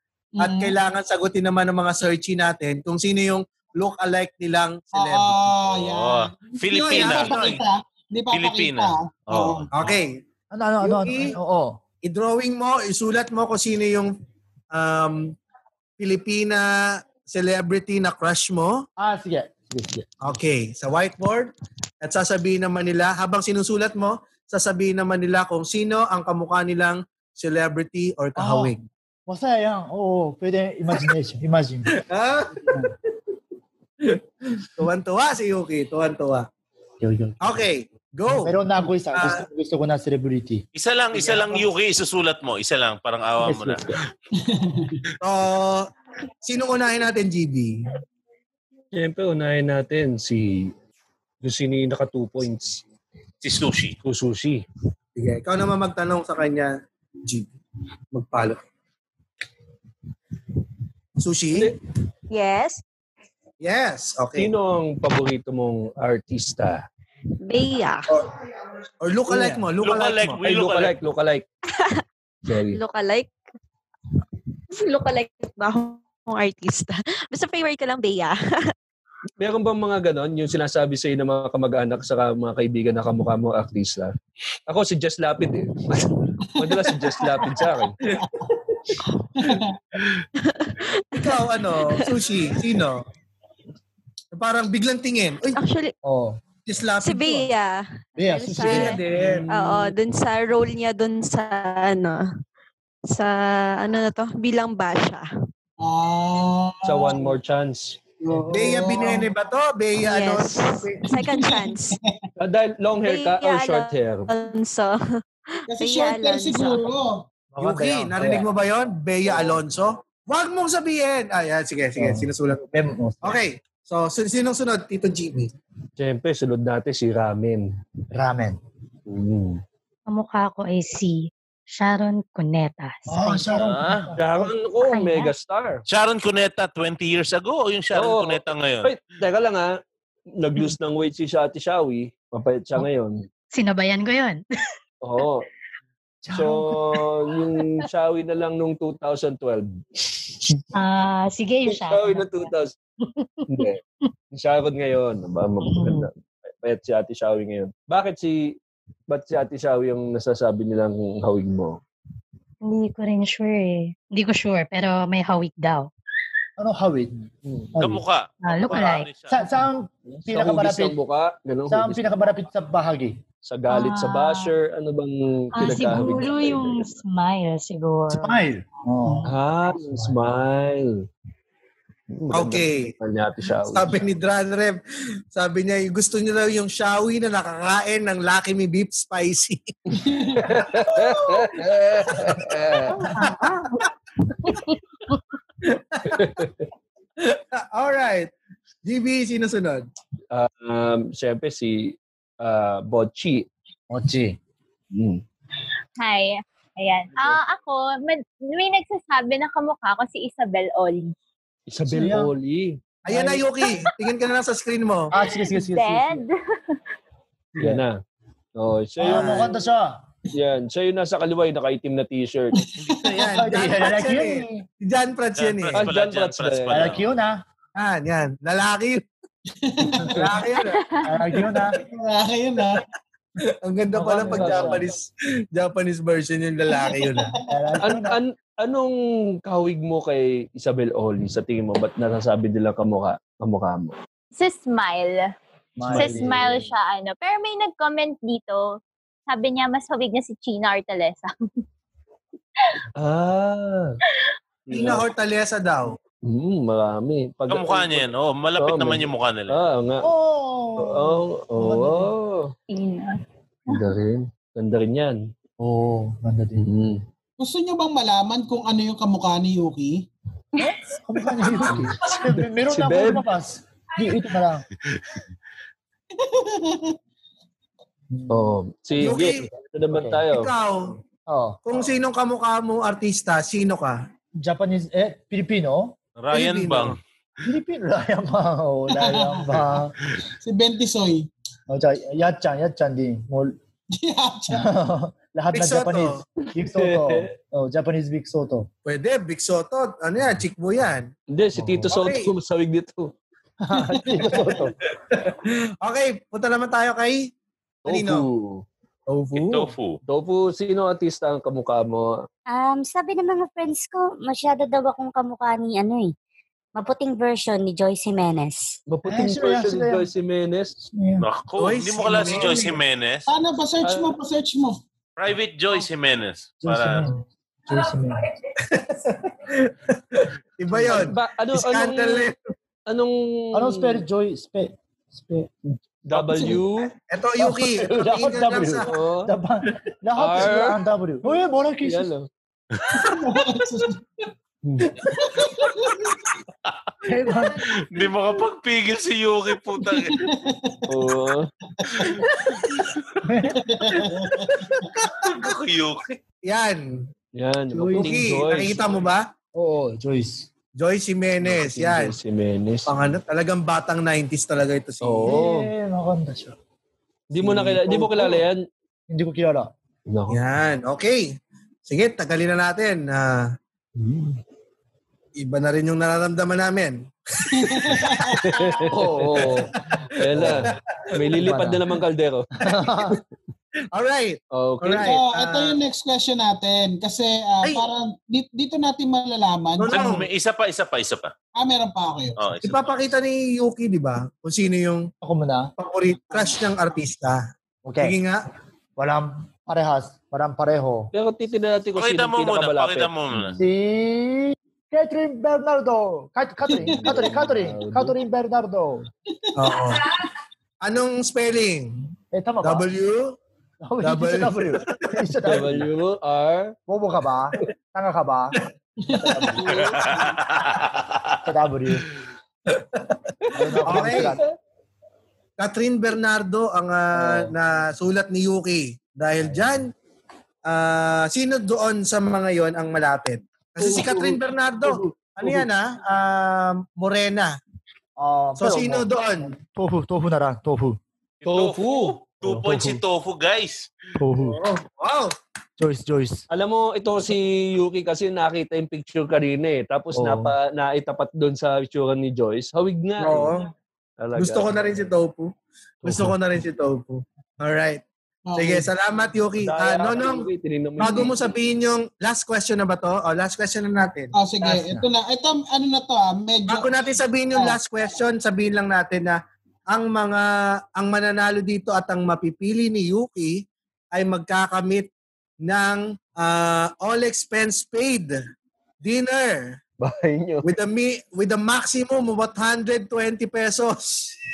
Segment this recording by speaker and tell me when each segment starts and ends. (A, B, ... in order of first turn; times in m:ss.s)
0:00.4-0:00.8 A
0:00.4-0:05.6 B
0:04.9-0:09.9 A
0:05.8-0:07.6 C
0:06.7-0:07.6 B
0:08.3-0:09.9 C
0:09.7-0:10.2 B
0:10.5-0:11.8 D
0:10.8-0:11.4 B
0:12.0-0:14.1 B
0:14.7-0:15.3 B
0:16.0-0:18.8 B
0:19.0-0:20.1 D
0:20.2-0:28.8 B
0:28.4-0:31.9 D
0:32.0-0:32.9 B
0:34.0-0:36.5 B
0:37.0-0:37.6 D
0:37.4-0:38.6 B
0:38.3-0:40.6 D
0:39.1-0:39.4 B
0:40.7-0:44.0 C
0:41.1-0:41.6 B
0:43.4-0:43.9 D
0:44.4-0:45.0 A
0:45.2-0:45.9 B
0:46.4-0:47.8 B
0:48.9-0:50.7 E
0:51.4-0:52.8 E
0:53.4-0:54.0 C
0:54.0-0:54.6 E
0:55.2-0:56.7 B
0:57.2-0:57.5 B
0:58.1-0:58.6 B
1:01.2-1:01.7 B
1:02.3-1:02.8 F
1:03.6-1:04.5 B
1:04.4-1:06.8 E
1:07.4-1:08.1 F
1:09.0-1:10.4 B
1:09.3-1:09.6 E
1:09.8-1:10.9 C
1:10.4-1:11.4 E
1:11.7-1:12.0 F
1:12.4-1:12.8 E
1:12.7-1:13.3 F
1:14.7-1:18.7 F
1:19.4-1:24.1 E
1:24.7-1:28.0 E
1:26.6-1:27.7 A
1:29.4-1:29.8 A
1:30.4-1:32.2 F
1:31.1-1:33.0 B
1:34.3-1:35.6 B
1:35.5-1:35.9 F
1:36.0-1:36.4 D
1:36.6-1:37.5 B
1:37.0-1:42.2 F
1:38.2-1:39.0 D
1:38.6-1:39.5 B
1:39.2-1:39.5 E
1:43.1-1:45.2 F
1:45.8-1:47.3 A
1:46.8-1:48.8 E
1:48.2-1:49.3 A
1:48.5-1:51.0 B
1:50.0-1:52.0 F
1:51.1-1:52.2 A
1:52.4-1:54.3 E
1:53.0-1:55.0 F
1:55.5-1:56.8 F
1:55.7-1:57.2 A
1:57.5-1:58.5 D
1:57.6-2:02.7 B
2:02.0-2:03.4 D
2:03.2-2:05.5 B
2:06.0-2:07.7 E
2:08.1-2:08.6 D
2:09.1-2:09.6 E
2:10.1-2:13.5 G
2:13.1-2:14.2 D
2:13.6-2:14.1 C
2:14.2-2:15.8 E
2:14.8-2:15.3 G
2:15.9-2:18.9 C
2:17.9-2:19.7 E
2:20.4-2:23.2 E
2:23.5-2:24.4 G
2:25.0-2:25.4 E
2:26.2-2:27.1 D
2:26.3-2:30.6 E
2:30.7-2:32.5 G
2:31.7-2:32.7 E
2:33.2-2:33.6 G
2:33.5-2:33.8 E
2:34.3-2:38.6 E
2:35.7-2:36.1 G
2:39.1-2:41.8 E
2:42.6-2:45.9 G
2:46.6-2:48.0 D
2:47.8-2:49.4 C
2:48.4-2:49.1 G
2:49.3-2:51.0 D
2:50.2-2:52.0 E
2:51.7-2:53.2 D
2:53.4-2:57.0 E
2:53.7-2:54.5 G
2:55.6-2:58.4 G
2:58.1-3:00.2 D
2:59.2-3:01.0 E
3:02.1-3:04.0 E
3:02.3-3:02.9 B
3:03.7-3:04.8 B
3:05.3-3:09.7 B
3:10.0-3:10.4 A
3:10.4-3:13.1 E
3:10.6-3:11.4 B
3:12.1-3:13.8 B
3:13.1-3:13.8 G
3:14.4-3:14.7 G
3:15.6-3:16.4 B
3:16.1-3:16.6 E
3:17.2-3:18.3 B
3:18.8-3:19.8 B
3:20.3-3:23.5 E
3:23.9-3:24.4 D
3:24.9-3:25.2 E
3:26.0-3:31.1 H
3:31.7-3:32.8 E
3:31.9-3:32.3 D
3:33.0-3:35.1 B
3:33.1-3:33.4 D
3:35.1-3:36.2 D
3:35.5-3:36.8 H
3:37.6-3:38.0 E
3:38.6-3:39.5 E
3:39.0-3:40.0 D
3:39.1-3:39.4 B
3:40.3-3:42.6 E
3:42.6-3:43.4 A
3:42.9-3:45.9 B
3:43.3-3:44.6 D
3:45.4-3:47.0 C
3:45.7-3:46.9 E
3:46.7-3:47.4 D
3:47.8-3:49.0 B
3:49.6-3:50.4 A
3:50.0-3:50.8 B
3:51.0-3:51.8 D
3:51.7-3:52.8 A
3:53.6-3:57.3 B
3:53.9-3:54.8 D
3:54.1-3:54.8 E
3:56.7-3:57.4 A
3:57.5-3:58.2 D
3:57.8-4:04.0 E
4:04.4-4:05.2 H
4:05.8-4:06.4 D
4:05.9-4:06.6 E
4:05.9-4:08.6 H
4:09.3-4:11.3 H
4:13.0-4:14.0 E
4:14.7-4:15.0 E
4:14.7-4:16.0 B
4:16.2-4:20.1 E
4:17.5-4:19.6 C
4:20.0-4:22.1 D
4:20.8-4:22.5 E
4:22.7-4:23.2 H
4:23.7-4:25.3 E
4:25.6-4:26.7 D
4:26.6-4:27.0 E
4:27.4-4:30.0 A
4:30.6-4:34.6 D
4:31.7-4:32.1 E
4:32.7-4:33.2 E
4:34.9-4:35.2 C
4:36.2-4:37.0 A
4:38.1-4:40.2 D
4:38.3-4:40.5 E
4:39.0-4:39.5 B
4:40.3-4:40.8 B
4:41.3-4:41.6 D
4:41.6-4:44.0 B
4:44.4-4:46.0 D
4:46.2-4:47.0 C
4:46.3-4:47.0 B
4:47.4-4:49.9 D
4:48.9-4:49.8 A
4:50.4-4:51.3 A
4:51.7-4:53.5 D
4:54.0-4:54.7 A
4:54.5-4:58.7 D
4:55.5-4:56.2 B
4:56.6-4:57.3 E
4:58.8-5:01.1 B
5:01.3-5:03.1 E
5:01.6-5:01.9 D
5:01.9-5:02.3 B
5:03.6-5:04.7 D
5:05.1-5:07.3 B
5:07.8-5:08.3 B
5:07.8-5:08.6 E
5:09.1-5:09.7 B
5:09.3-5:10.0 C
5:10.1-5:12.2 E
5:12.5-5:16.1 I
5:16.8-5:18.8 I
5:18.9-5:20.7 E
5:19.0-5:20.1 D
5:20.8-5:21.2 D
5:21.2-5:23.3 C
5:21.6-5:22.8 B
5:23.3-5:24.8 A
5:23.8-5:24.2 E
5:25.2-5:27.0 C
5:26.6-5:28.2 D
5:28.6-5:32.4 B
5:30.7-5:31.0 D
5:30.9-5:32.3 E
5:32.9-5:34.0 E
5:33.5-5:35.5 D
5:36.1-5:36.9 E
5:36.2-5:36.6 A
5:37.0-5:38.9 B
5:37.4-5:42.1 D
5:38.9-5:39.3 E
5:40.2-5:40.8 E
5:41.8-5:42.3 E
5:42.7-5:43.0 C
5:42.9-5:44.0 A
5:44.6-5:44.9 E
5:45.1-5:46.1 A
5:47.0-5:47.7 D
5:47.7-5:50.2 C
5:49.8-5:50.9 A
5:50.9-5:51.5 E
5:52.0-5:52.2 A
5:53.2-5:53.6 D
5:53.6-5:54.6 A
5:55.1-5:56.2 C
5:55.2-5:55.5 B
5:56.4-5:57.1 B
5:57.4-5:58.8 E
5:57.7-5:59.2 B
5:57.9-5:58.3 D
5:59.5-6:00.5 D
6:00.8-6:02.1 B
6:01.4-6:02.9 E
6:02.9-6:05.4 B
6:05.0-6:05.7 E
6:05.2-6:06.6 D
6:07.3-6:08.6 E
6:07.4-6:08.3 D
6:09.1-6:09.7 D
6:10.1-6:10.4 E
6:10.3-6:11.3 B
6:11.9-6:13.5 B
6:14.0-6:14.3 E
6:15.4-6:18.8 B
6:17.6-6:18.4 A
6:18.4-6:22.5 E
6:18.9-6:19.7 D
6:19.9-6:20.7 B
6:20.4-6:20.7 D
6:21.3-6:21.8 D
6:22.6-6:23.2 D
6:23.9-6:25.8 B
6:24.5-6:25.1 E
6:25.0-6:30.2 A
6:29.8-6:30.2 B
6:29.9-6:31.3 C
6:31.6-6:32.4 A
6:32.4-6:32.9 C
6:32.6-6:35.1 B
6:35.2-6:35.7 D
6:35.8-6:37.4 B
6:37.8-6:38.2 D
6:38.0-6:38.4 B
6:39.0-6:41.1 D
6:41.1-6:43.6 E
6:42.0-6:43.6 C
6:43.6-6:49.1 D
6:46.7-6:47.2 A
6:46.8-6:48.1 E
6:49.4-6:49.8 A
6:49.6-6:50.1 B
6:50.8-6:52.0 B
6:52.3-6:52.9 D
6:52.6-6:53.4 B
6:53.8-6:55.9 D
6:54.0-6:55.1 B
6:55.4-6:56.7 E
6:56.9-6:58.6 D
6:59.0-7:00.2 A
6:59.2-6:59.8 D
6:59.8-7:01.4 C
7:01.4-7:02.1 D
7:03.5-7:04.4 D
7:03.5-7:04.4 E
7:03.8-7:04.4 B
7:05.6-7:09.9 B
7:10.6-7:17.6 B
7:13.8-7:14.2 E
7:18.2-7:21.0 D
7:18.6-7:19.5 B
7:21.4-7:23.9 C
7:21.4-7:22.1 E
7:22.4-7:23.0 D
7:24.2-7:24.6 D
7:24.3-7:25.3 B
7:25.8-7:26.4 D
7:26.5-7:33.5 E
7:30.1-7:30.5 D
7:33.2-7:33.7 B
7:34.2-7:35.0 E
7:34.4-7:35.5 B
7:36.0-7:36.3 D
7:36.0-7:38.0 B
7:38.5-7:38.9 A
7:38.6-7:40.5 B
7:39.6-7:41.3 E
7:41.0-7:44.3 B
7:44.3-7:46.9 A
7:44.6-7:45.0 D
7:46.7-7:55.1 B
7:55.6-7:58.4 B
7:59.0-7:59.8 B
8:00.0-8:00.7 E
8:00.6-8:04.3 B